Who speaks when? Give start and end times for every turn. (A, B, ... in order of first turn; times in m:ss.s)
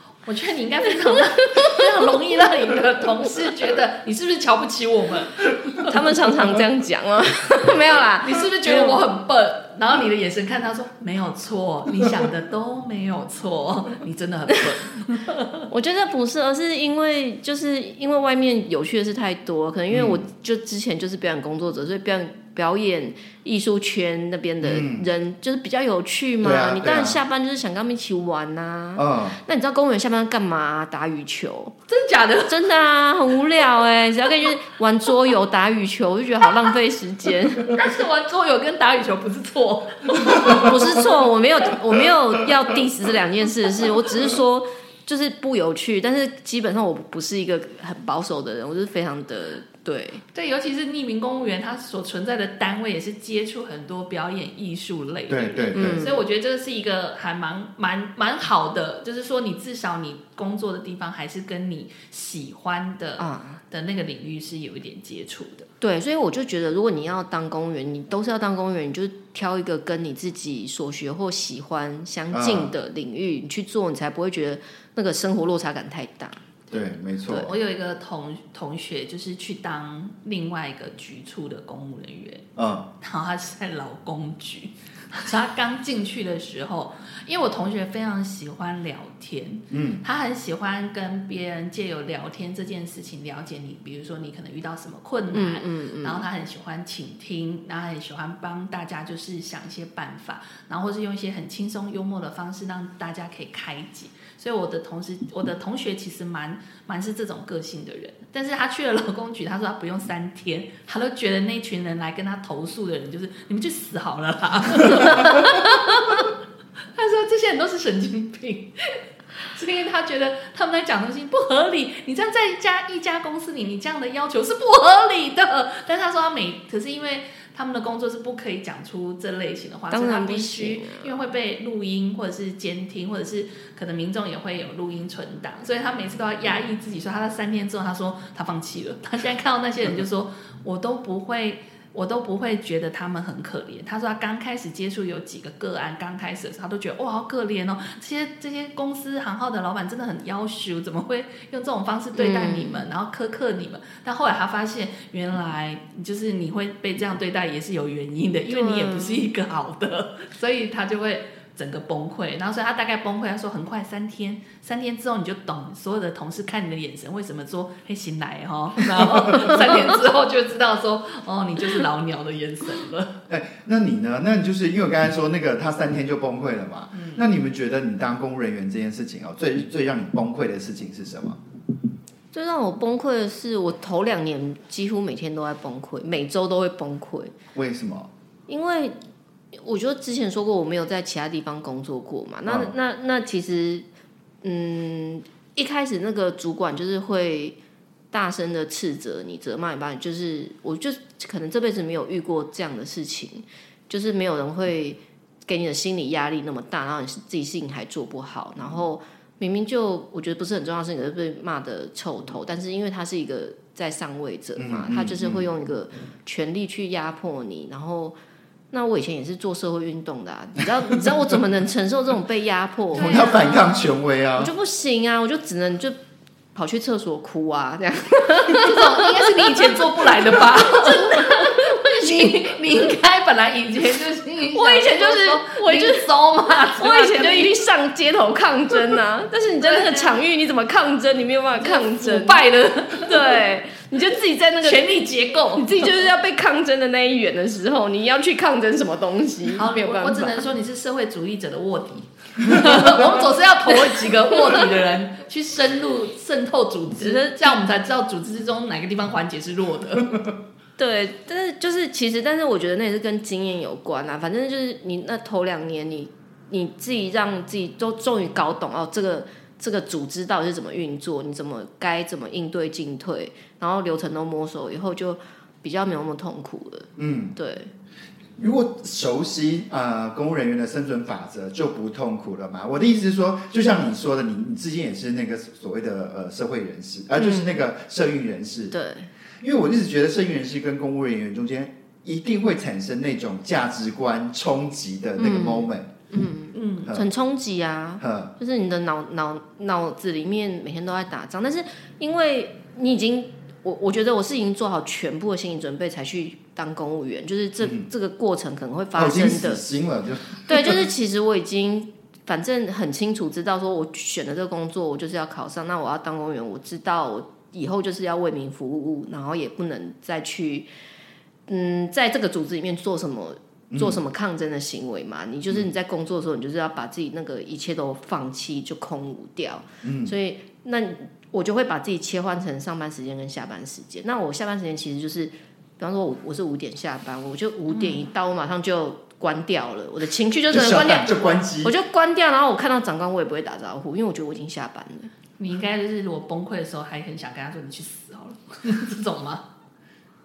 0:00.2-0:06.0 A
0:01.1-0:01.8 B
0:05.8-0:09.0 B
0:08.2-0:15.7 A
0:15.7-0:31.8 B
0:19.9-0:20.2 C
0:24.6-0:25.1 C
0:26.4-0:27.2 C
0:29.0-0:29.4 C
0:31.9-0:32.7 A
0:32.5-0:37.8 B
0:37.7-0:41.1 A
0:40.3-0:50.2 B
0:50.3-1:05.7 A
0:55.3-0:56.1 C
0:55.7-0:56.2 B
1:03.2-1:03.6 B
1:05.8-1:16.4 B
1:12.3-1:12.7 C
1:16.7-1:17.5 C
1:17.3-1:22.4 A
1:22.6-1:22.9 C
1:23.0-1:56.3 A
1:29.7-1:30.0 C
1:35.3-1:36.2 B
1:56.9-2:53.2 A
2:09.9-2:11.1 B
2:32.1-2:32.8 B
2:38.5-2:39.3 B
2:53.3-3:01.4 C
2:56.9-2:57.2 A
3:02.3-3:07.4 B
3:07.5-3:08.1 C
3:08.5-3:09.0 B
3:09.5-3:13.8 B
3:12.4-3:12.7 C
3:14.4-3:17.6 B
3:18.1-3:38.2 B
3:34.6-3:35.5 C
3:38.7-3:43.2 B
3:42.9-3:43.8 A
3:42.9-3:44.5 C
3:44.4-3:46.0 B
3:46.5-3:52.3 B
3:48.5-3:57.6 A
3:54.5-3:56.1 B
3:56.7-4:04.9 B
3:59.6-4:00.2 A
4:01.6-4:03.5 A
4:04.6-4:06.0 A
4:05.5-4:10.4 B
4:09.5-4:20.3 A
4:13.9-4:14.6 B
4:17.0-4:17.6 B
4:20.8-4:37.7 B
4:37.0-4:37.3 C
4:38.4-4:48.7 C
4:47.2-4:47.5 B
4:48.7-4:49.1 B
4:49.4-4:55.9 C
4:55.2-5:09.6 B
4:56.5-4:57.0 A
4:58.0-4:58.3 C
5:08.9-5:10.8 C
5:10.5-5:20.7 B
5:21.5-5:45.1 B
5:23.7-5:24.0 C
5:29.8-5:30.1 C
5:37.7-5:38.0 A
5:40.5-5:41.7 C
5:45.4-5:49.4 A